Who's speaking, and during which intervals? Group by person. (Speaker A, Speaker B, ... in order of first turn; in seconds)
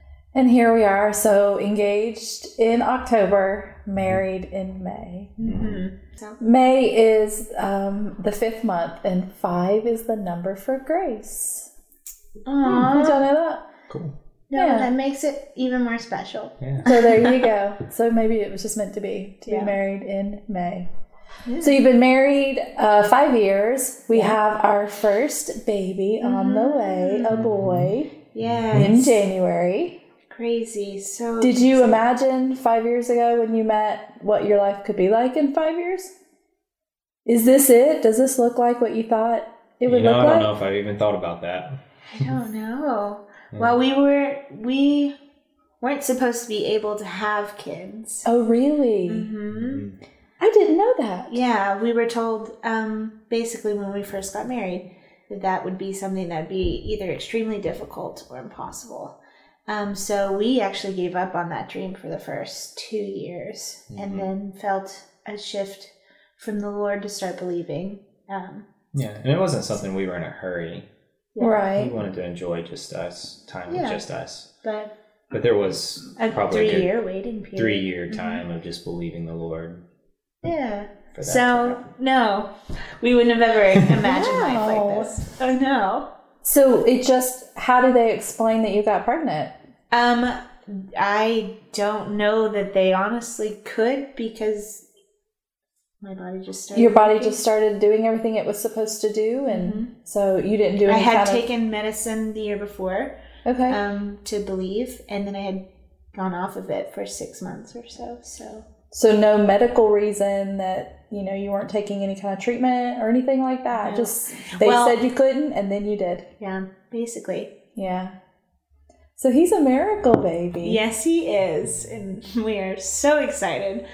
Speaker A: 0.3-5.4, 6.4-11.7, 12.6-13.7, 14.5-14.9, 16.8-20.9, 21.6-28.1, 28.7-30.0, 31.4-36.1, 37.2-40.5, 48.2-49.3, 50.4-51.4, 71.4-72.0, 84.0-85.2, 86.4-89.5, 96.7-101.4, 103.4-103.8, 108.9-116.3, 117.7-118.2, 119.2-120.8
Speaker B: 5.4-6.4, 12.4-13.2, 14.5-17.4, 19.4-19.7, 21.4-21.8, 26.2-27.4, 28.3-29.2, 30.3-32.0, 42.1-45.1, 45.8-48.2, 49.0-49.8, 51.3-68.7, 71.3-71.7, 73.7-74.0, 74.6-74.9, 76.2-78.4, 80.4-86.1, 89.9-94.8, 96.0-97.4, 99.5-99.9, 100.8-103.2, 103.7-108.7, 113.7-115.0, 116.4-117.5, 120.6-123.8
Speaker C: 5.4-5.8, 13.9-14.1, 16.6-16.9, 27.3-27.9, 28.5-28.9, 39.9-41.8, 43.5-43.8, 49.5-50.0, 63.9-64.3, 68.9-70.9, 71.8-74.5, 75.3-77.0, 77.5-79.8, 81.1-81.9